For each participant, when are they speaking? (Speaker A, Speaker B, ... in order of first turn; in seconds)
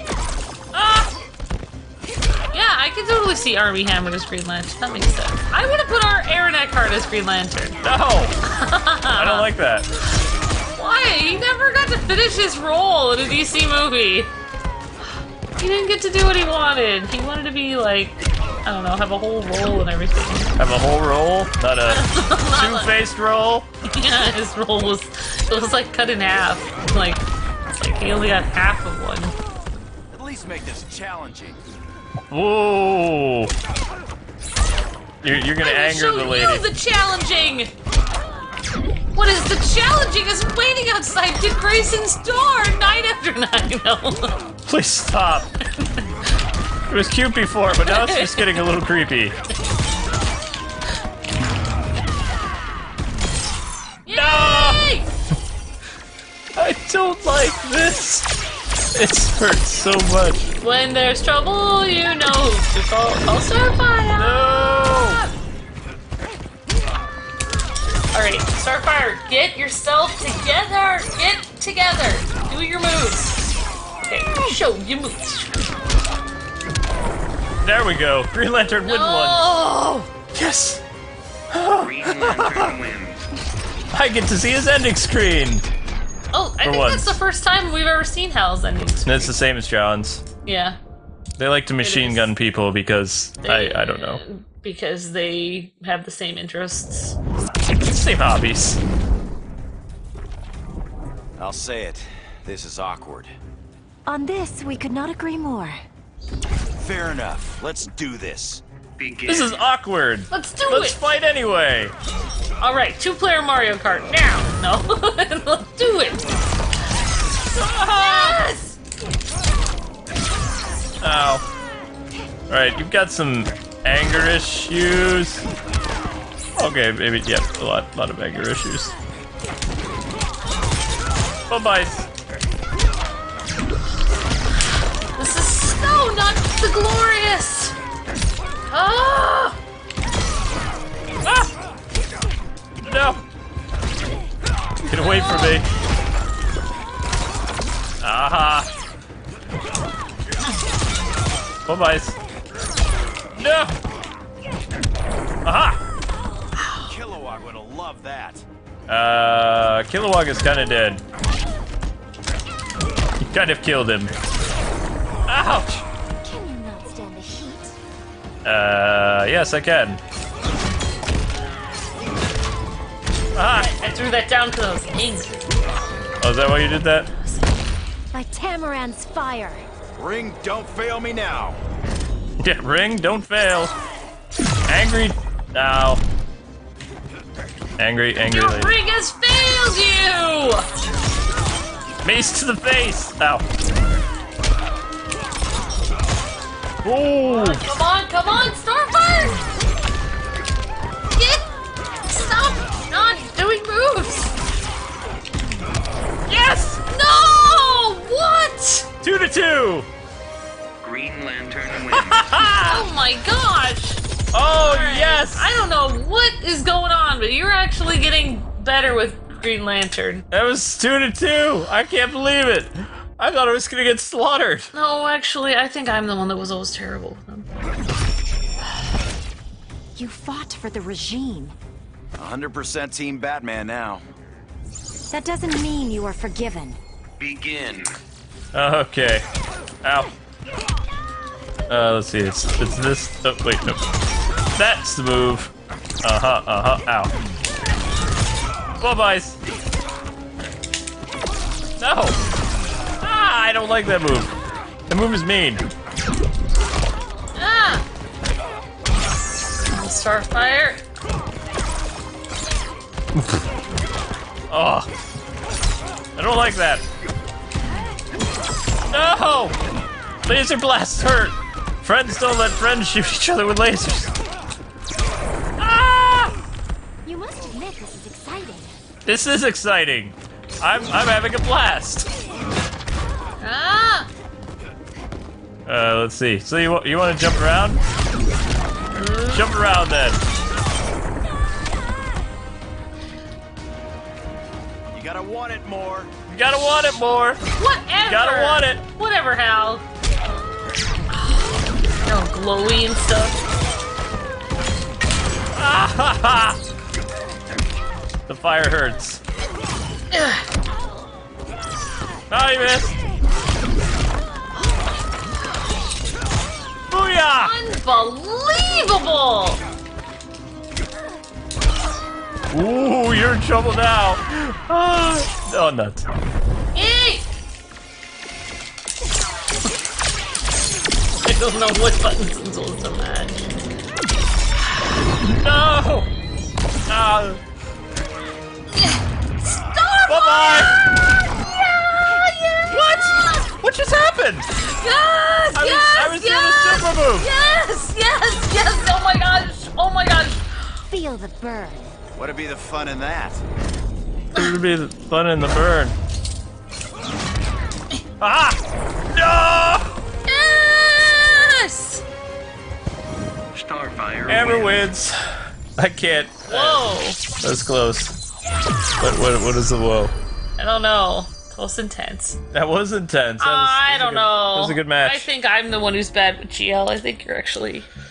Speaker A: 0.7-1.1, 7.8-8.3, 9.2-9.9, 20.6-23.7, 32.3-33.5, 35.2-36.6, 44.6-45.5, 46.9-49.4, 54.1-54.8, 56.5-58.3, 58.9-60.5, 64.1-65.2, 77.6-79.6, 80.3-80.8, 81.5-82.7, 83.9-85.7, 86.6-87.2, 89.0-90.2, 91.4-94.2, 97.8-98.8, 109.3-111.9, 117.5-118.5, 121.0-121.4, 122.5-125.5, 126.6-128.9, 131.5-132.1, 141.2-141.5, 142.8-143.2, 144.8-145.6, 148.0-148.7, 151.7-152.2, 153.3-153.8, 155.4-155.8, 158.9-161.0, 163.2-164.1, 165.3-165.8, 168.4-170.0, 173.3-173.7, 176.2-177.1, 182.4-183.7, 184.7-186.0, 187.8-188.7, 192.0-193.4, 196.8-197.6, 206.3-206.8, 209.0-209.9, 211.9-212.8, 214.3-215.5, 220.3-224.7, 238.5-239.2, 239.8-240.1, 241.7-243.8, 244.6-245.5, 246.0-247.1, 248.8-249.4, 251.8-252.2, 253.0-254.3, 254.9-255.7, 264.5-264.9, 266.1-266.8, 268.9-269.6, 270.2-274.1, 275.6-276.4, 279.0-282.1, 285.6-287.8, 289.3-290.2, 296.3-297.4, 298.0-298.8, 305.5-306.6, 308.3-309.2, 312.3-313.0, 316.9-317.5, 322.5-326.0, 335.2-336.1, 336.9-337.4, 340.0-340.8, 342.6-344.5, 345.5-347.3, 354.3-355.9, 358.2-358.6, 359.1-359.9, 364.3-365.2, 365.8-368.1, 369.0-370.1, 372.5-375.3
Speaker B: 2.5-7.8, 8.4-9.5, 10.7-14.3, 15.6-20.5, 21.8-22.9, 23.8-29.3, 35.6-37.7, 39.1-44.4, 45.8-46.1, 47.7-48.7, 54.0-55.1, 60.6-65.3, 68.1-73.4, 74.0-75.5, 78.8-80.1, 86.3-89.3, 90.4-90.8, 91.8-92.3, 93.4-97.2, 110.3-111.0, 112.6-116.2, 117.5-118.8, 135.1-137.7, 138.7-139.6, 145.0-145.6, 156.6-156.9, 173.5-175.4, 188.2-190.7, 197.2-199.4, 201.1-201.5, 202.1-204.3, 206.8-208.9, 212.6-214.0, 214.6-220.2, 224.7-227.5, 257.4-257.8, 259.6-260.8, 283.4-284.1, 288.9-289.6, 297.6-299.8, 301.1-301.5, 302.0-303.4, 310.1-310.4, 317.3-319.6, 326.7-327.2, 331.2-333.4, 338.7-343.4, 344.6-350.8, 360.3-362.0, 366.5-367.2, 370.6-372.4, 373.4-377.9
Speaker C: 30.1-31.6, 101.4-103.3, 106.8-108.6, 156.8-158.4, 179.9-181.6, 232.2-234.0, 294.9-296.1, 352.1-353.4
Speaker D: 81.7-83.2, 109.0-109.7, 210.8-212.5, 237.2-237.9, 363.5-364.8
Speaker E: 104.1-105.8, 166.2-167.8, 178.1-179.7, 229.9-231.6, 235.1-236.8, 277.0-278.7, 350.9-351.9